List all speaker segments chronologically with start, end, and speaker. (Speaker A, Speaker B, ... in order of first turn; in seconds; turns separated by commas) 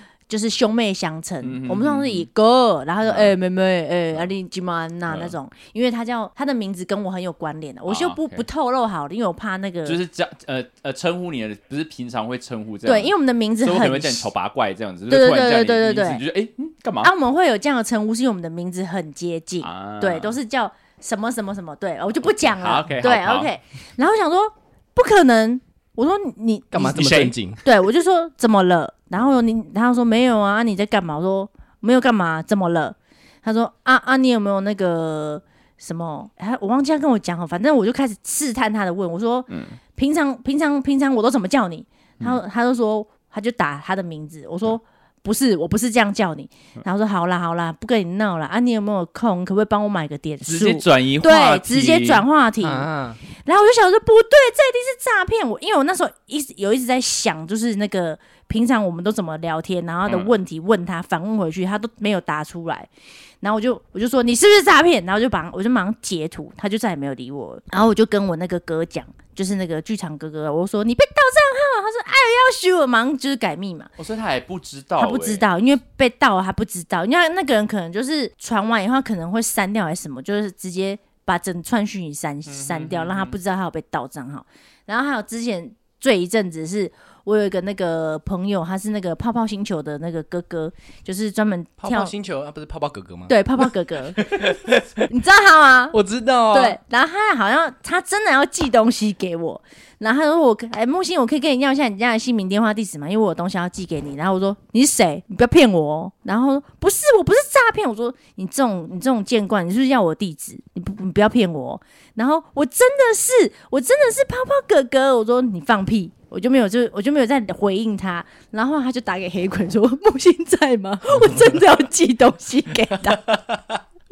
Speaker A: 0.3-10.0, Speaker B: 1.4-2.3, Speaker B: 3.0-3.3, Speaker B: 5.1-5.3, Speaker B: 7.9-8.4, Speaker B: 9.8-17.1, Speaker A: 12.8-14.3, Speaker A: 15.1-16.2, Speaker A: 17.0-27.1, Speaker B: 19.6-20.4, Speaker B: 22.2-23.5, Speaker C: 26.7-27.6, Speaker B: 26.9-27.3, Speaker A: 27.6-62.9, Speaker B: 39.5-39.8, Speaker B: 50.5-52.2, Speaker C: 52.6-53.2, Speaker B: 60.1-60.3, Speaker A: 63.4-73.9, Speaker B: 74.0-75.5, Speaker A: 75.0-92.1, Speaker B: 82.5-83.3, Speaker C: 91.8-93.6, Speaker A: 93.3-94.2, Speaker C: 94.2-95.0, Speaker A: 95.1-96.0, Speaker C: 95.9-96.8, Speaker A: 96.5-123.3, Speaker C: 123.1-123.8